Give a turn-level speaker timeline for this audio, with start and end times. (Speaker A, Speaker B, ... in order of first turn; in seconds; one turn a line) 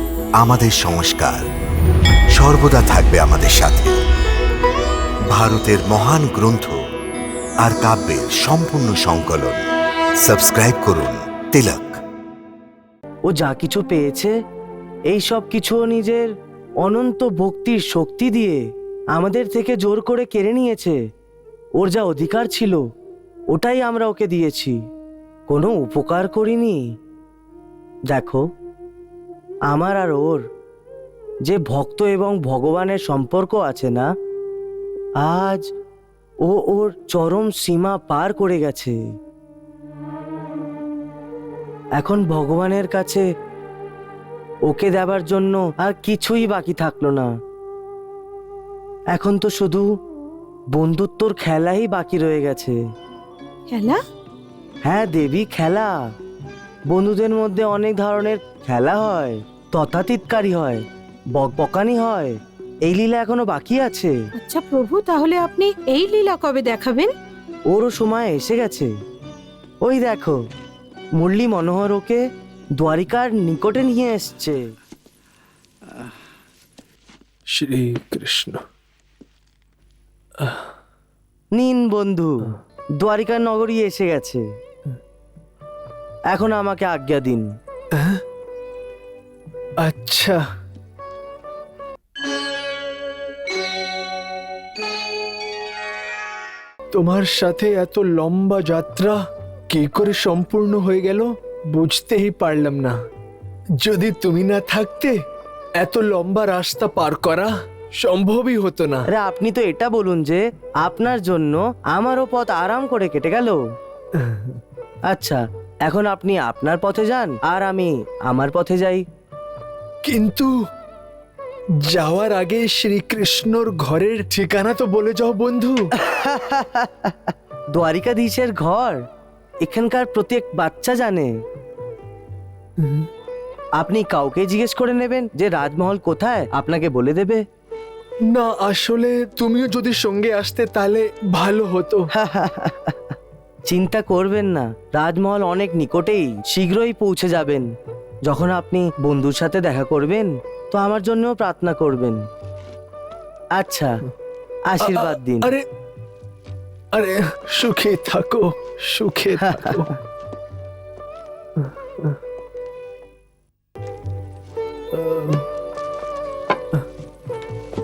Speaker A: 0.4-1.5
Speaker A: 2.3-4.0
Speaker A: 5.3-6.8
Speaker A: 7.6-9.6
Speaker A: 10.2-12.0
Speaker B: 13.3-14.3
Speaker B: 15.1-16.3
Speaker B: 16.8-18.6
Speaker B: 19.1-21.0
Speaker B: 21.8-22.8
Speaker B: 23.5-24.8
Speaker B: 25.5-26.8
Speaker B: 28.1-28.4
Speaker B: 29.7-30.4
Speaker B: 31.4-34.1
Speaker B: 35.2-35.7
Speaker B: 36.4-39.0
Speaker B: 42.0-43.2
Speaker B: 44.7-47.3
Speaker B: 49.1-49.9
Speaker B: 50.7-52.8
Speaker C: 53.7-54.0
Speaker B: 54.8-56.0
Speaker B: 56.9-60.8
Speaker B: 61.4-64.1
Speaker C: 64.3-67.1
Speaker B: 67.7-68.9
Speaker B: 69.8-70.4
Speaker B: 71.2-72.2
Speaker B: 72.8-74.6
Speaker D: 77.5-78.6
Speaker D: 80.4-80.7
Speaker B: 81.5-84.4
Speaker B: 86.3-87.5
Speaker D: 87.9-88.2
Speaker D: 89.8-90.4
Speaker D: 96.9-103.0
Speaker D: 103.8-105.2
Speaker D: 105.8-109.0
Speaker B: 109.1-113.6
Speaker D: 114.1-114.6
Speaker B: 115.1-119.0
Speaker D: 120.0-120.5
Speaker D: 121.8-125.9
Speaker B: 126.0-129.0
Speaker B: 129.6-131.4
Speaker D: 132.8-133.1
Speaker B: 133.8-137.4
Speaker D: 138.3-142.1
Speaker B: 142.2-143.0
Speaker B: 143.7-147.7
Speaker B: 148.2-152.2
Speaker B: 153.6-154.0
Speaker B: 154.7-155.5
Speaker D: 154.8-155.7
Speaker D: 156.9-159.9
Speaker B: 159.4-159.9
Speaker D: 161.6-162.2
Speaker D: 164.9-165.5